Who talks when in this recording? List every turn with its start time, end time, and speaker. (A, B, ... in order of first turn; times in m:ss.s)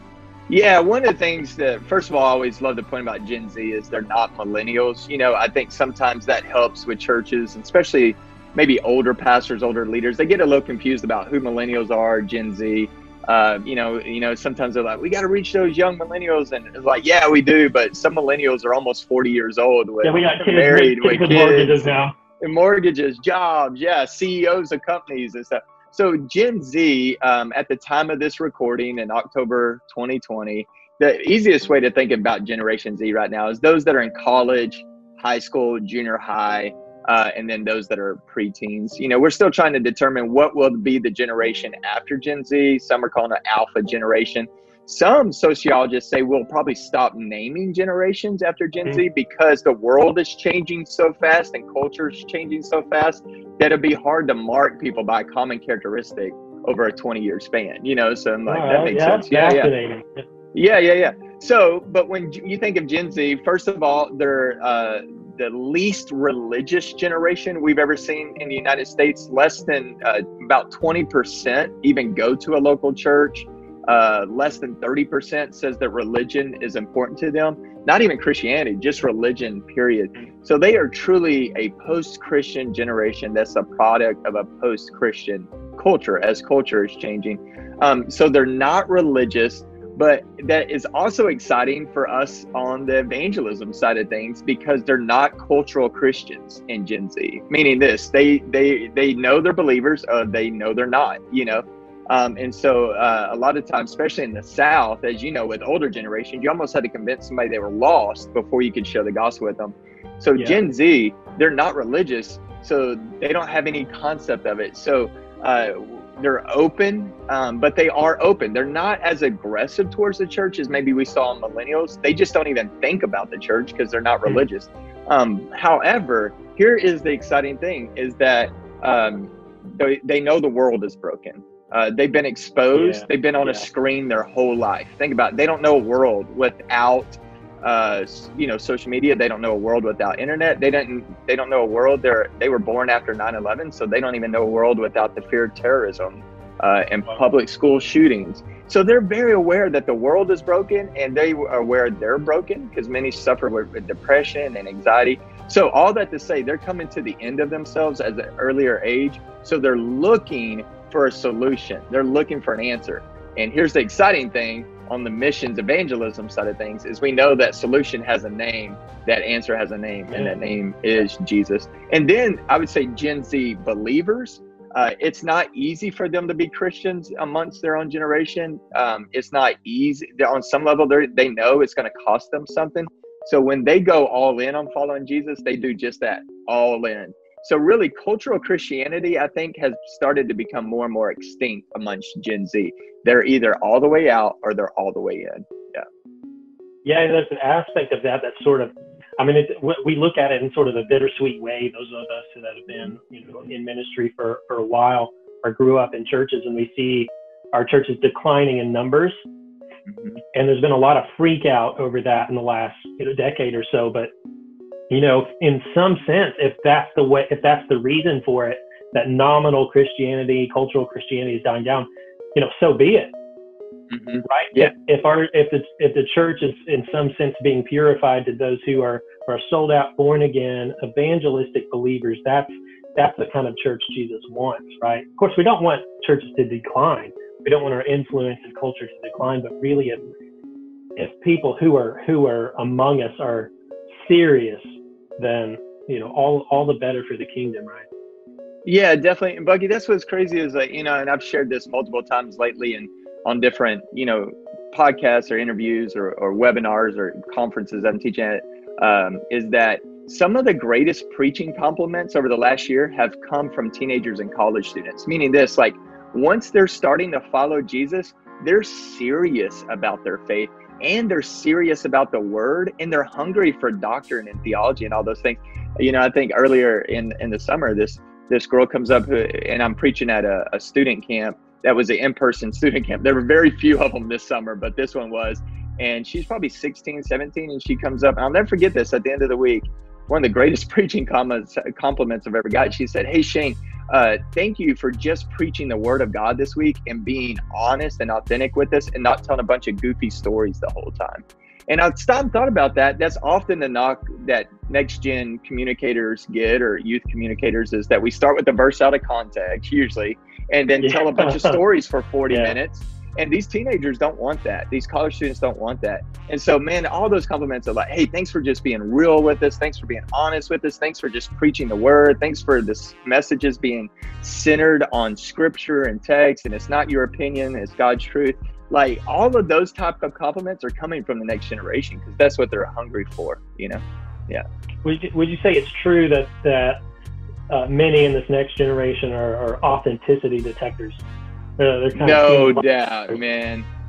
0:00.5-0:21.8 A
0:20.0-0:22.1 B
0:22.4-0:59.7 A
0:58.5-1:00.2 B
1:00.5-3:15.8 A
2:12.7-2:13.6 B
2:50.1-2:50.5 B
3:16.8-3:29.2 B
3:29.9-3:30.2 A
3:30.3-3:34.1 B
3:34.9-3:43.1 B
3:43.9-3:44.7 A
3:44.2-4:00.0 B
4:01.0-4:07.9 B
4:08.6-5:34.4 A
5:10.8-5:11.6 B
5:12.3-5:12.6 B
5:34.8-5:36.8 B
5:37.5-5:41.0 B
5:41.6-5:42.6 B
5:41.9-5:43.7 A